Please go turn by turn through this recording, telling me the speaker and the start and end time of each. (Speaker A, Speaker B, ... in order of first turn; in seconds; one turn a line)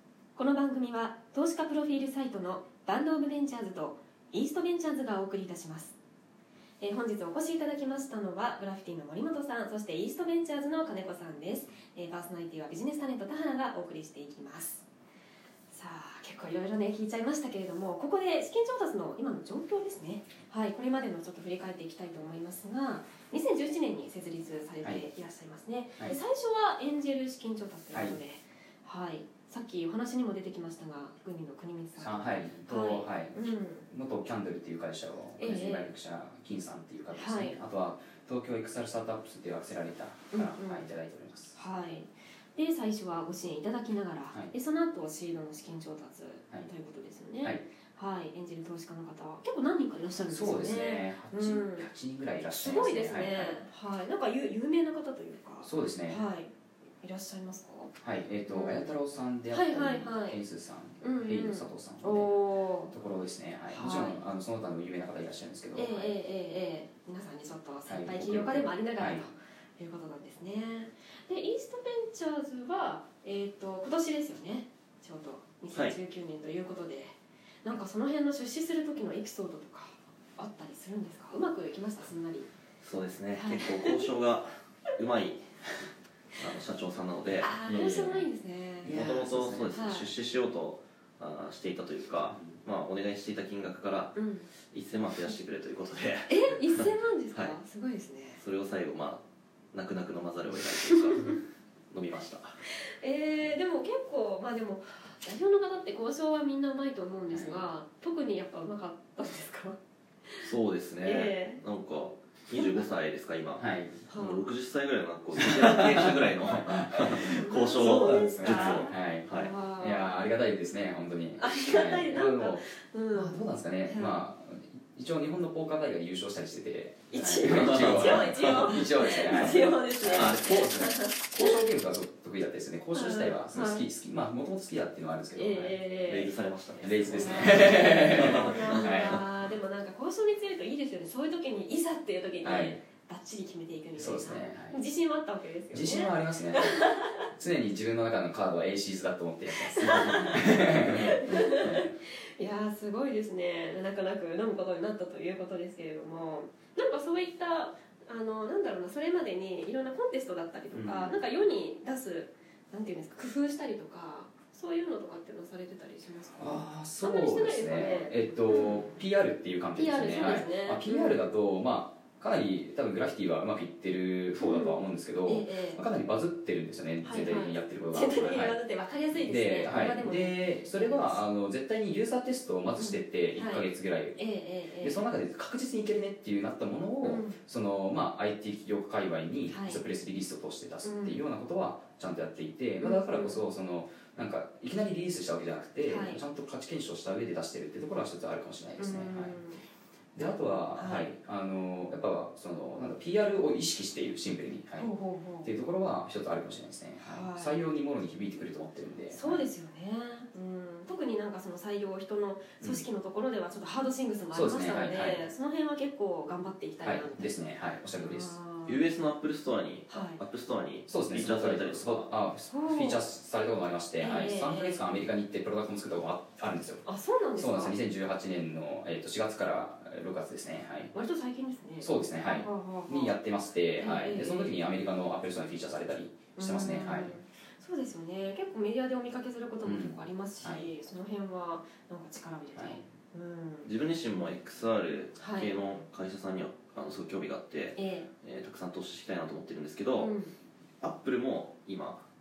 Speaker A: 0.3-6.0
Speaker A: 6.8-14.9
Speaker A: 15.7-33.9
Speaker B: 27.9-28.2
Speaker B: 31.9-41.5
Speaker A: 35.4-35.9
Speaker A: 37.1-37.6
Speaker A: 40.3-40.8
Speaker A: 41.5-51.9
Speaker B: 50.3-53.6
Speaker A: 52.6-57.9
Speaker B: 55.6-56.2
Speaker B: 58.0-66.2
Speaker A: 58.5-58.9
Speaker A: 59.5-60.4
Speaker A: 61.0-62.9
Speaker A: 63.7-64.2
Speaker A: 65.7-82.5
Speaker B: 67.9-69.2
Speaker C: 75.7-76.0
Speaker C: 82.8-85.7
Speaker A: 83.3-84.0
Speaker C: 86.3-88.2
Speaker A: 87.4-89.0
Speaker B: 87.6-88.2
Speaker B: 88.8-89.8
Speaker C: 88.8-94.2
Speaker A: 89.7-90.1
Speaker B: 92.2-92.6
Speaker A: 94.1-94.5
Speaker C: 94.7-97.6
Speaker A: 96.3-98.4
Speaker C: 98.4-99.2
Speaker C: 99.7-101.4
Speaker C: 101.9-102.6
Speaker A: 102.8-110.5
Speaker C: 110.4-119.5
Speaker A: 111.0-111.6
Speaker A: 112.5-112.8
Speaker B: 113.6-114.0
Speaker A: 114.1-114.5
Speaker B: 115.3-116.1
Speaker B: 116.7-135.8
Speaker A: 117.2-120.3
Speaker A: 121.4-124.2
Speaker A: 127.1-131.6
Speaker C: 127.4-128.6
Speaker C: 129.2-130.8
Speaker A: 132.9-133.9
Speaker A: 135.3-136.3
Speaker C: 136.0-138.7
Speaker B: 136.8-139.2
Speaker A: 137.0-147.2
Speaker B: 142.4-142.8
Speaker B: 144.0-144.8
Speaker B: 145.7-151.9
Speaker A: 149.5-168.9
Speaker B: 160.7-161.2
Speaker B: 166.4-178.6
Speaker A: 169.8-171.2
Speaker A: 174.4-175.8
Speaker A: 177.0-181.2
Speaker B: 179.1-184.2
Speaker A: 182.8-185.0
Speaker B: 184.8-199.3
Speaker A: 187.0-187.4
Speaker A: 189.5-189.8
Speaker A: 190.8-191.2
Speaker A: 192.8-193.4
Speaker A: 195.8-196.2
Speaker A: 198.8-199.6
Speaker B: 200.1-209.4
Speaker A: 200.7-201.1
Speaker A: 204.8-205.5
Speaker A: 207.0-207.6
Speaker A: 209.1-217.4
Speaker B: 214.3-215.2
Speaker B: 216.8-218.4
Speaker A: 218.0-218.8
Speaker C: 218.6-222.1
Speaker A: 219.9-220.2
Speaker B: 220.9-230.9
Speaker A: 222.5-223.0
Speaker A: 224.0-224.8
Speaker A: 226.8-227.8
Speaker A: 230.9-233.2
Speaker B: 231.8-237.2
Speaker A: 233.8-234.5
Speaker A: 236.4-243.7
Speaker B: 239.6-240.7
Speaker B: 242.5-242.8
Speaker C: 243.6-250.1
Speaker A: 245.2-245.6
Speaker A: 247.7-248.1
Speaker A: 249.9-250.3
Speaker C: 250.8-252.0